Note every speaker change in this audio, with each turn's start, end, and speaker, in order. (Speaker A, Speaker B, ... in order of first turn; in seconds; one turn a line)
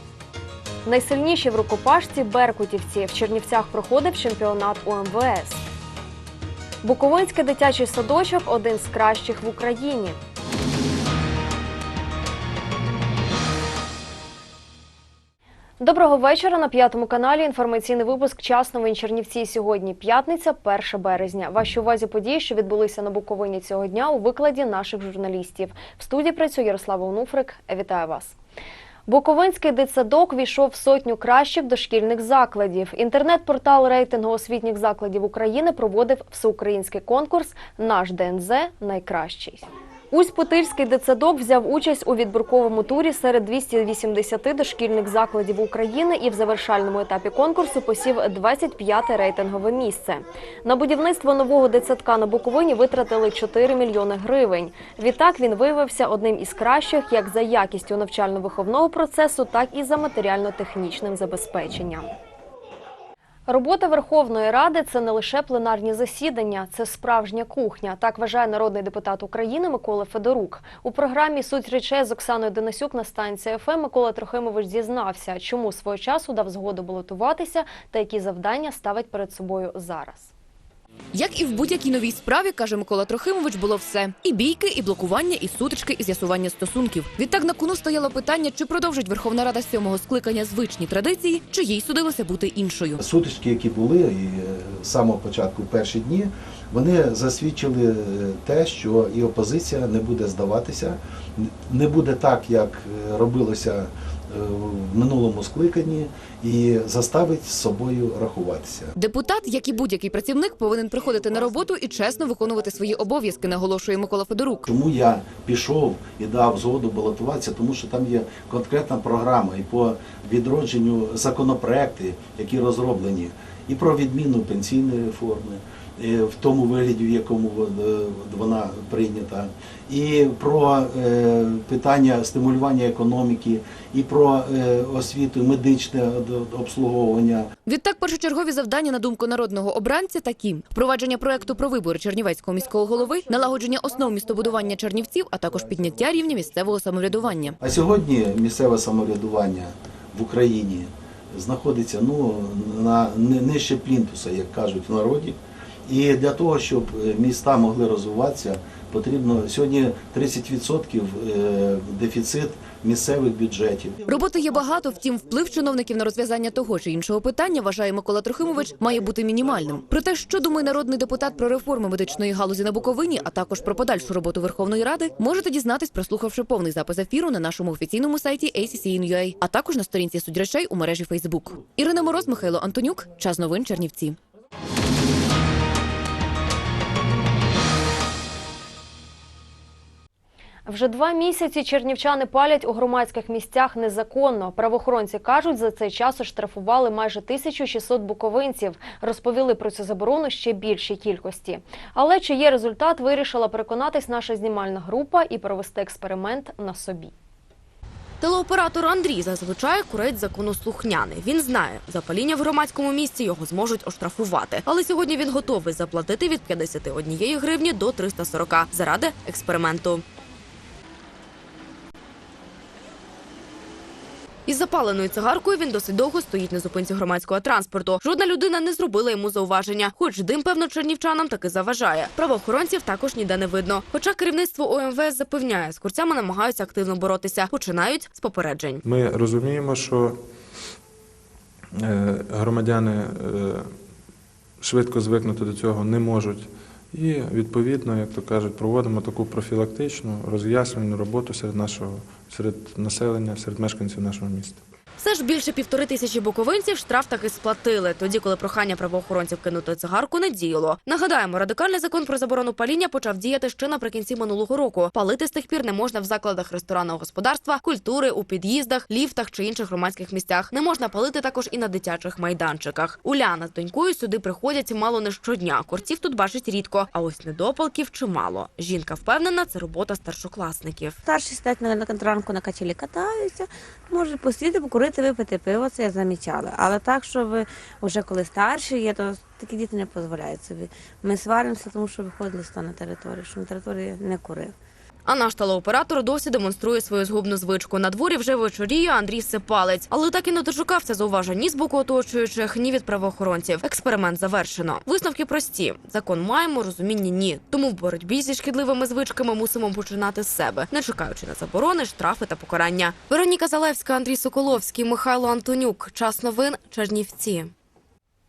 Speaker A: 0.8-5.6
Speaker A: 6.8-10.2
Speaker A: 15.8-28.4
Speaker A: 29.1-62.1
Speaker A: 63.5-80.3
Speaker B: 81.1-93.0
Speaker C: 93.0-108.9
Speaker B: 109.0-114.6
Speaker C: 114.7-137.5
Speaker B: 137.7-147.6
Speaker C: 147.6-164.0
Speaker B: 164.1-184.2
Speaker A: 190.7-207.1
Speaker D: 208.2-220.0
Speaker D: 224.5-238.8
Speaker E: 238.8-240.2
Speaker E: 241.8-243.7
Speaker E: 244.6-254.6
Speaker D: 255.0-281.0
Speaker F: 281.1-294.6
Speaker D: 295.1-317.5